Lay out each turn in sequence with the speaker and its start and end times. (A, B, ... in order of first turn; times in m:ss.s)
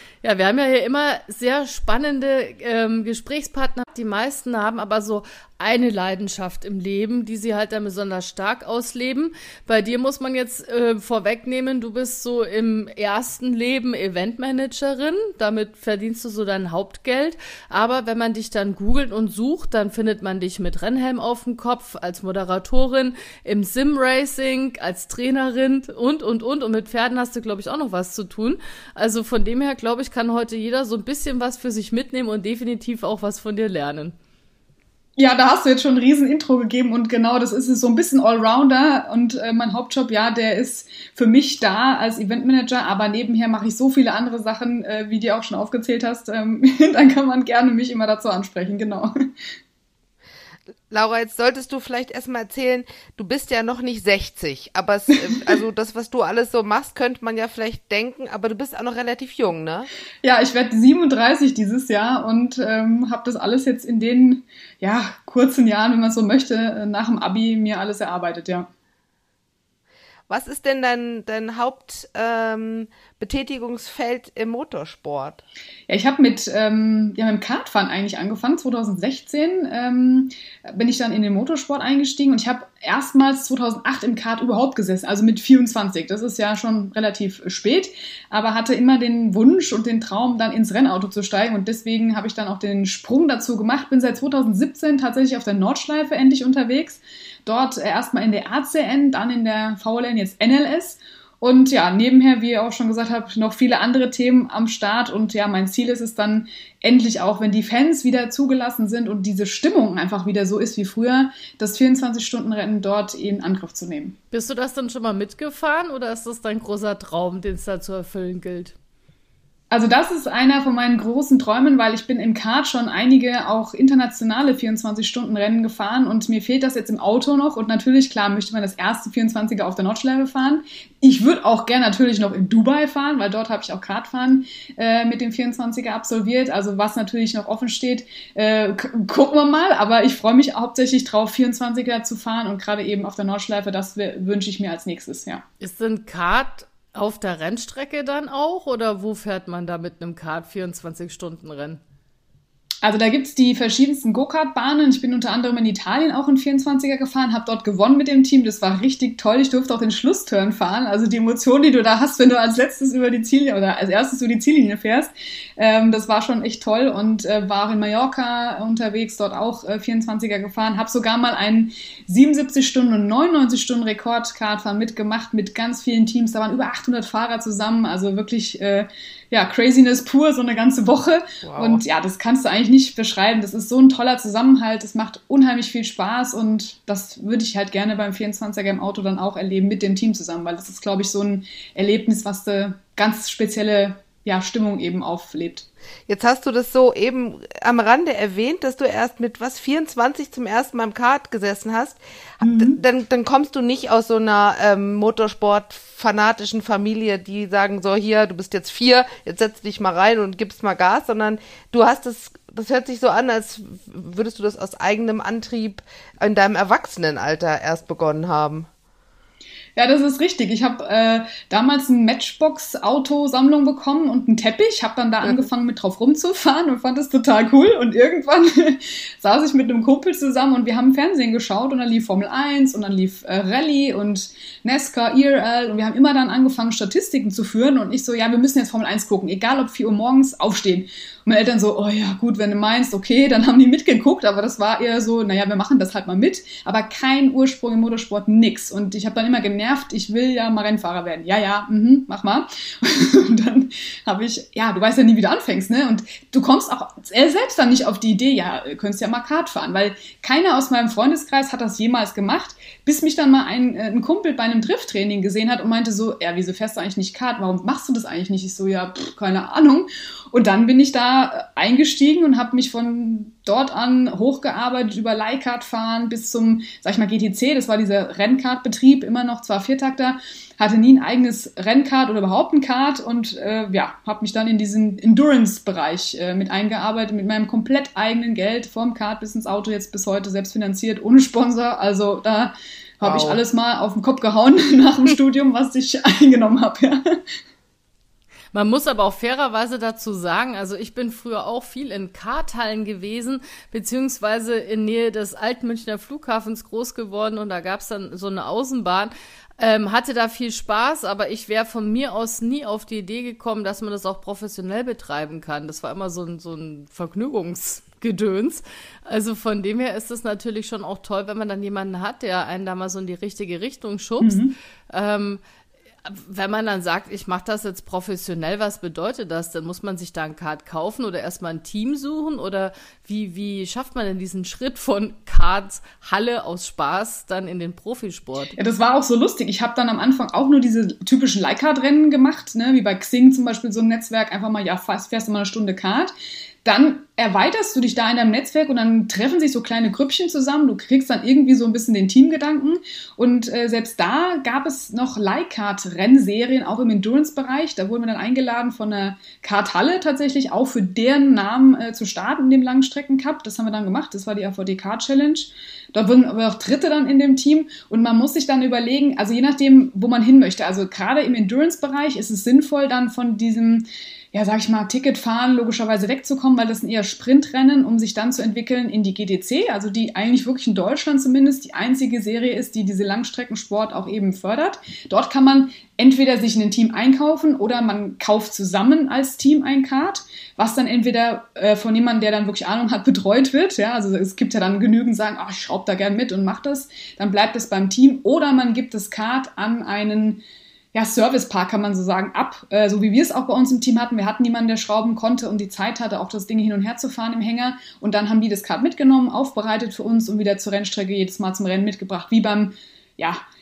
0:00.2-0:34.2 A
0:35.2-0:49.3 B
0:50.9-0:59.9 C
1:00.2-1:08.7 B
1:10.3-1:15.4 C
1:15.9-1:54.2 B
1:54.3-1:58.7 A
1:59.7-2:25.4 B
2:25.6-2:31.8 A
2:32.8-3:15.7 B
3:01.4-3:01.8 C
3:16.1-3:38.7 C
3:22.4-3:22.8 B
3:39.8-4:57.2 B
4:53.0-4:53.4 C
4:58.5-5:25.4 A
5:24.2-5:24.6 B
5:26.0-5:38.6 A
5:38.6-5:46.1 B
5:46.6-6:40.4 B
6:40.9-6:53.4 B